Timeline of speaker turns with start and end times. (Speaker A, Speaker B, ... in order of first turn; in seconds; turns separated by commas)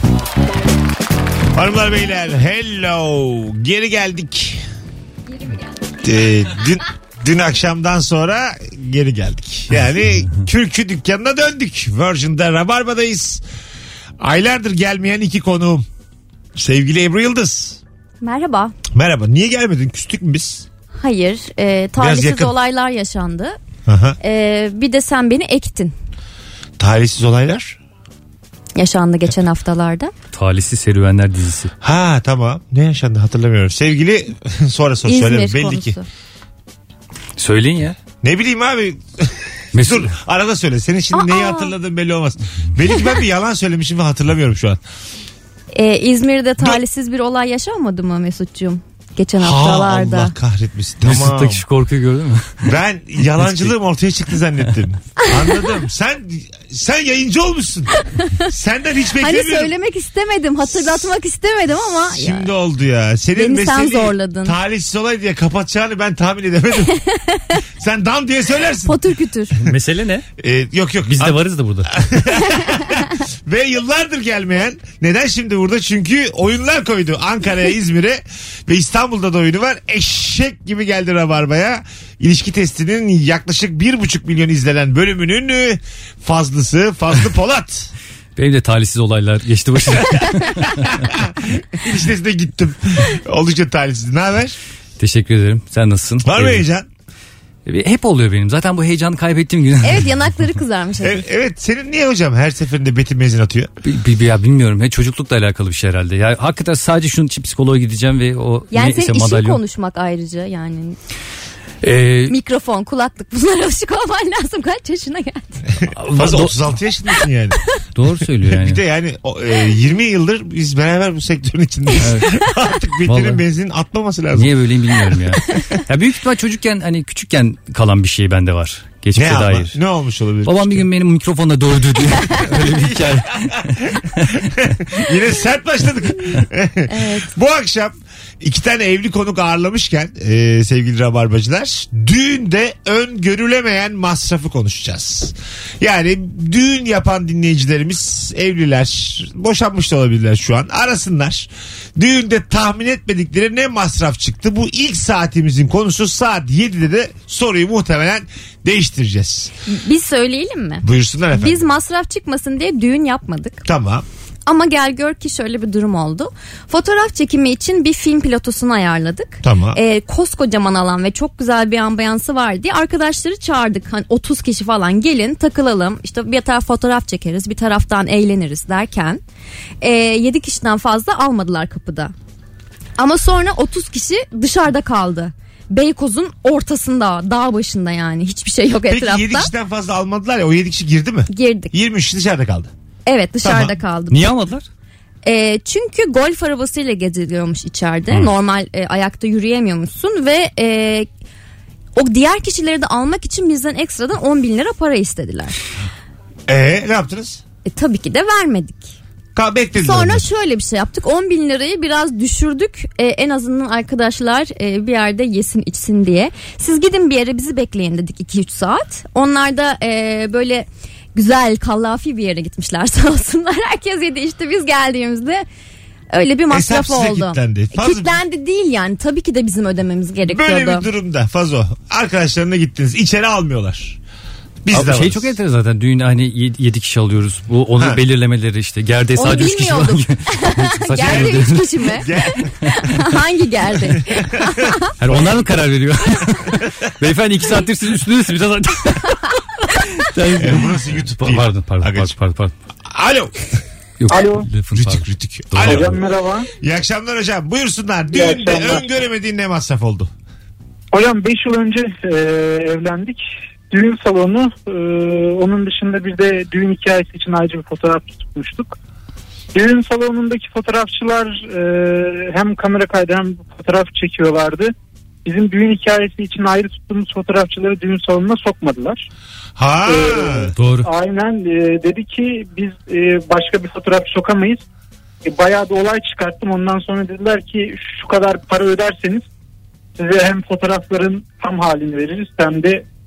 Speaker A: 1.5-4.6, Speaker A: 6.0-13.4, Speaker A: 14.2-15.9, Speaker A: 16.6-17.8, Speaker B: 18.2-18.8, Speaker A: 18.9-20.7, Speaker B: 21.0-23.6, Speaker A: 22.0-22.5, Speaker A: 23.9-24.2, Speaker B: 24.2-25.9, Speaker A: 26.8-27.8, Speaker B: 28.8-30.1, Speaker C: 30.3-31.7, Speaker A: 31.8-36.0, Speaker B: 35.1-36.1, Speaker C: 37.4-38.0, Speaker A: 38.2-44.8, Speaker C: 39.7-40.1, Speaker B: 41.1-41.7, Speaker B: 45.7-50.3, Speaker A: 49.4-51.6, Speaker C: 51.0-52.6, Speaker A: 52.6-57.9, Speaker C: 53.4-53.7, Speaker B: 55.2-55.6, Speaker B: 58.0-58.5, Speaker A: 58.5-59.7, Speaker B: 59.2-62.5, Speaker A: 62.1-66.9, Speaker B: 63.4-64.6, Speaker B: 66.9-67.6, Speaker A: 67.8-69.0, Speaker B: 68.8-69.6, Speaker C: 69.6-70.2, Speaker A: 70.4-87.9, Speaker C: 71.1-71.9, Speaker C: 88.4-91.1, Speaker A: 90.9-94.6, Speaker C: 95.0-96.6, Speaker A: 96.2-96.9, Speaker C: 97.7-100.1, Speaker B: 99.8-101.3, Speaker A: 101.0-103.7, Speaker C: 103.8-109.6, Speaker B: 108.7-111.0, Speaker C: 111.8-112.3, Speaker B: 112.3-115.5, Speaker A: 115.8-117.6, Speaker C: 116.0-116.5, Speaker C: 118.0-118.8, Speaker A: 118.5-124.7, Speaker C: 122.0-122.3, Speaker C: 123.1-123.4, Speaker C: 124.3-129.8, Speaker A: 129.2-130.8, Speaker C: 130.4-134.4, Speaker A: 132.6-133.6, Speaker A: 134.4-159.5, Speaker B: 136.9-137.3, Speaker B: 159.7-163.6, Speaker A: 160.8-161.6, Speaker A: 163.7-164.1, Speaker B: 164.5-179.2, Speaker A: 169.4-169.8, Speaker B: 179.8-182.1, Speaker B: 183.0-189.5, Speaker A: 188.9-192.7, Speaker B: 191.3-191.7, Speaker B: 193.1-194.3, Speaker A: 193.4-193.7, Speaker C: 194.1-194.7, Speaker B: 195.2-201.1, Speaker B: 202.0-205.6, Speaker A: 206.5-207.4, Speaker B: 207.7-208.9, Speaker A: 209.3-210.2, Speaker B: 209.8-225.4, Speaker B: 226.1-230.9, Speaker A: 226.5-228.2, Speaker A: 230.3-234.0, Speaker A: 234.6-235.3, Speaker C: 234.7-241.8, Speaker B: 239.2-244.9, Speaker A: 241.0-241.4, Speaker A: 242.0-242.5, Speaker A: 244.2-245.3, Speaker C: 245.0-252.5, Speaker A: 250.4-252.2, Speaker A: 252.9-253.5, Speaker C: 254.0-256.0, Speaker D: 254.1-254.5, Speaker A: 254.7-256.0, Speaker D: 255.6-256.5, Speaker A: 256.6-260.1, Speaker D: 258.1-258.8, Speaker D: 260.9-268.8, Speaker D: 269.5-274.7, Speaker D: 275.2-279.1, Speaker A: 279.6-280.5, Speaker D: 279.9-284.6, Speaker C: 280.6-280.9, Speaker D: 285.2-289.2, Speaker D: 290.0-292.8